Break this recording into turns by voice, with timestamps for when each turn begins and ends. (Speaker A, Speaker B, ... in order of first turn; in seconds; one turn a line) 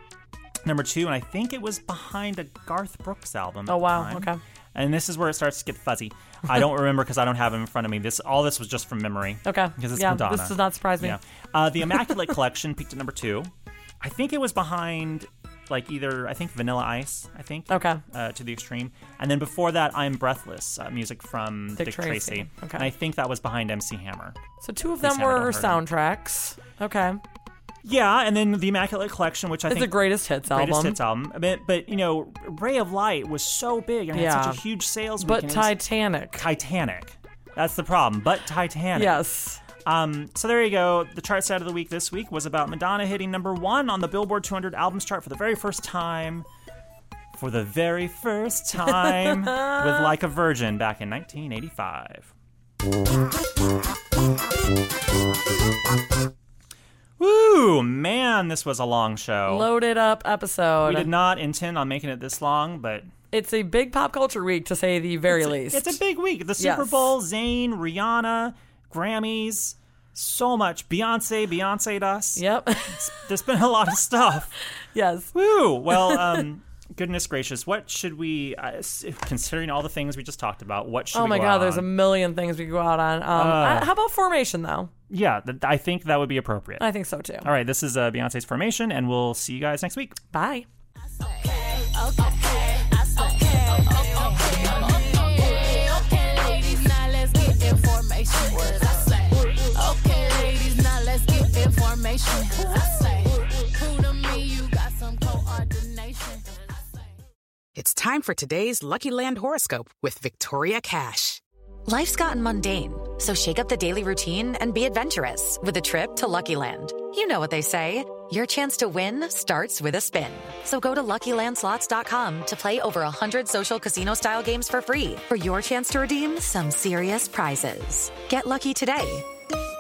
Speaker A: 0.6-24.4
Speaker B: 3.7-4.4
Speaker B: 9.4-11.2
Speaker B: 17.7-18.0
Speaker B: 21.8-22.9
Speaker B: 24.6-27.2
Speaker A: 25.0-25.8
Speaker A: 27.8-35.7
Speaker B: 29.7-31.0
Speaker B: 34.1-34.6
Speaker B: 35.2-36.4
Speaker A: 36.3-39.2
Speaker B: 39.0-39.6
Speaker A: 39.8-46.5
Speaker A: 47.3-52.3
Speaker B: 49.1-49.8
Speaker A: 57.2-59.7
Speaker B: 59.5-61.1
Speaker A: 60.8-63.1
Speaker B: 63.3-66.0
Speaker A: 65.3-74.5
Speaker B: 66.6-67.1
Speaker B: 72.4-73.2
Speaker B: 74.9-75.3
Speaker A: 75.3-81.9
Speaker B: 75.9-76.4
Speaker B: 81.1-84.9
Speaker A: 83.3-83.9
Speaker A: 85.1-86.8
Speaker B: 86.8-87.5
Speaker A: 87.4-90.2
Speaker B: 90.3-90.7
Speaker C: 91.1-107.1
Speaker D: 107.8-111.4
Speaker E: 111.9-129.3